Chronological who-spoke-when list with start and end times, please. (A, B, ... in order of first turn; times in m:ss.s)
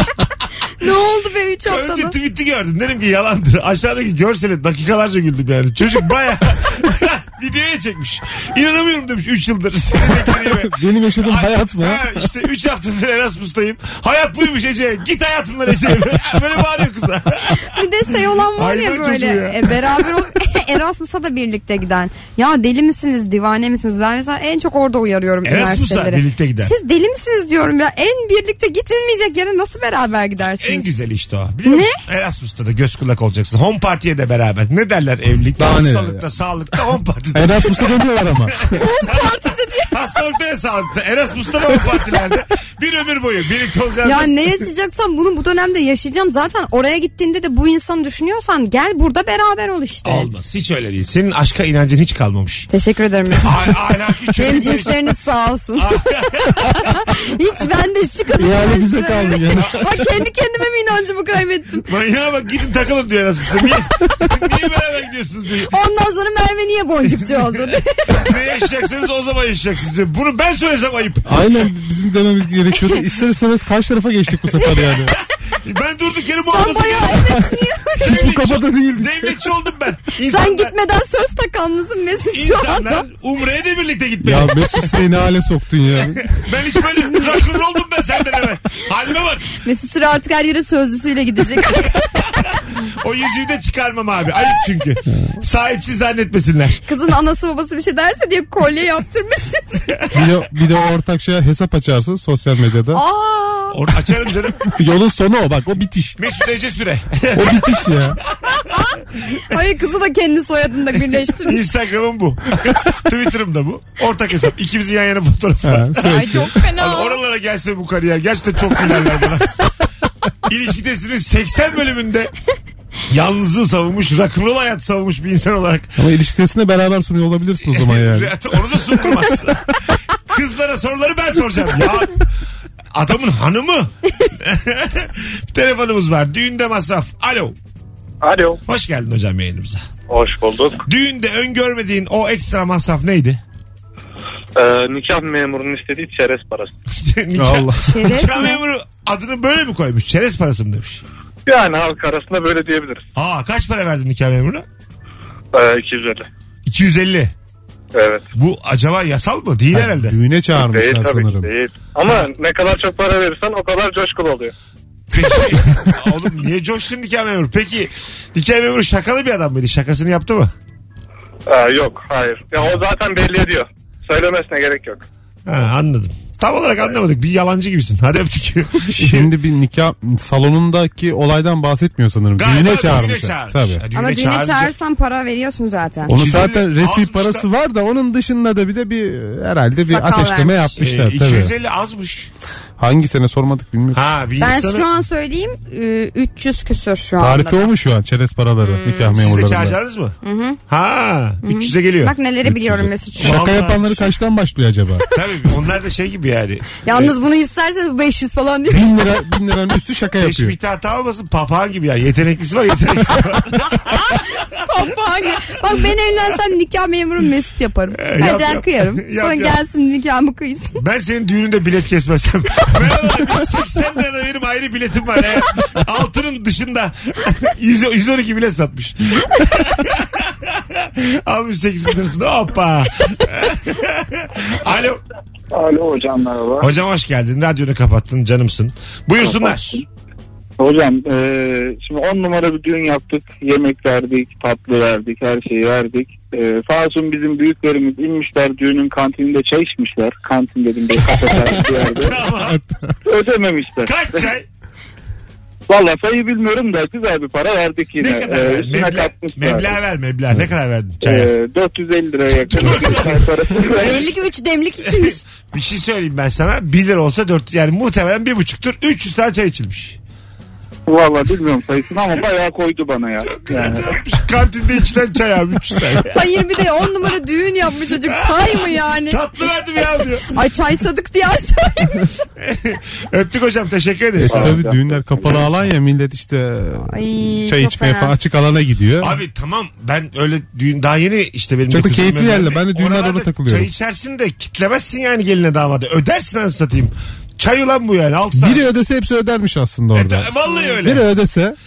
0:00.8-0:02.2 A
0:01.7-0:17.6 B
0:10.3-0:12.0 C
0:17.6-0:30.9 A
0:18.6-0:20.0 B
0:25.4-0:26.7 B
0:30.6-0:38.4 B
0:31.7-0:32.0 A
0:35.6-0:36.2 C
0:37.3-0:38.8 C
0:38.8-0:39.9 A
0:39.1-0:39.4 B
0:39.9-0:44.4 B
0:44.0-0:50.3 A
0:50.0-0:52.7 B
0:52.7-0:53.6 A
0:53.4-0:55.0 B
0:54.4-0:56.0 A
0:55.8-0:56.7 B
0:56.6-1:01.9 A
0:58.4-1:00.0 C
1:01.8-1:05.7 B
1:05.7-1:08.3 A
1:08.1-1:11.4 B
1:11.3-1:15.2 C
1:15.5-1:17.4 B
1:16.4-1:18.4 A
1:18.0-1:19.3 C
1:18.0-1:20.7 B
1:20.2-1:23.1 A
1:22.3-1:24.9 B
1:24.2-1:26.2 C
1:26.3-1:29.5 B
1:29.5-1:32.1 A
1:32.5-1:36.8 B
1:36.9-1:39.9 A
1:40.1-1:43.0 C
1:42.9-1:43.8 A
1:43.7-1:44.7 B
1:44.7-1:46.2 C
1:46.2-1:48.7 B
1:47.3-1:48.2 C
1:49.5-1:51.6 A
1:51.4-1:59.6 B
1:55.6-1:56.5 C
1:56.0-1:57.2 A
2:00.4-2:02.3 B
2:03.1-2:06.0 B
2:06.0-2:08.3 C
2:07.6-2:09.6 B
2:10.3-2:12.2 B
2:12.9-2:17.6 B
2:18.2-2:18.6 D
2:18.7-2:19.8 B
2:20.1-2:20.8 D
2:20.9-2:23.4 B
2:24.6-2:26.7 D
2:26.9-2:31.0 B
2:27.4-2:27.9 C
2:27.8-2:28.6 A
2:31.5-2:33.0 D
2:33.2-2:34.6 B
2:35.5-2:36.3 D
2:36.6-2:37.3 B
2:37.9-2:38.2 D
2:38.4-2:40.2 B
2:39.7-2:41.5 C
2:40.5-2:44.5 D
2:45.1-2:50.5 B
2:51.5-2:55.0 D
2:55.5-2:59.3 B
2:58.9-3:03.8 C
3:02.4-3:04.7 B
3:03.9-3:06.1 A
3:06.1-3:11.5 C
3:06.1-3:07.5 B
3:09.9-3:10.8 A
3:10.8-3:12.3 B
3:12.8-3:14.0 C
3:13.9-3:14.9 B
3:14.4-3:17.7 A
3:17.2-3:19.8 C
3:18.6-3:19.1 A
3:19.1-3:20.2 B
3:20.2-3:20.6 A
3:20.7-3:22.2 B
3:21.4-3:23.5 A
3:22.5-3:25.0 C
3:23.2-3:24.1 B
3:25.1-3:27.1 B
3:26.8-3:28.9 A
3:28.7-3:30.5 C
3:30.2-3:34.4 B
3:34.6-3:40.8 A
3:38.0-3:39.6 B
3:40.8-3:55.0 B
3:55.5-3:56.7 E
3:56.6-3:59.8 B
3:59.2-3:59.8 E
4:00.6-4:12.2 E
4:12.0-4:12.6 B
4:12.3-4:13.0 C
4:13.0-4:14.3 E
4:13.8-4:14.5 B
4:15.7-4:19.8 E
4:18.0-4:21.3 B
4:21.0-4:24.1 E
4:22.5-4:23.3 B
4:23.6-4:25.2 A
4:25.0-4:30.0 B
4:30.9-4:34.0 E
4:33.2-4:36.1 B
4:36.1-4:39.2 A
4:38.1-4:40.3 B
4:40.3-4:42.1 A
4:42.4-4:44.6 B
4:44.2-4:46.9 C
4:45.3-4:45.6 B
4:46.9-4:48.1 A
4:47.4-4:49.2 C
4:49.0-4:58.7 B
4:51.7-4:53.7 C
4:58.4-5:01.6 C
4:59.9-5:01.1 B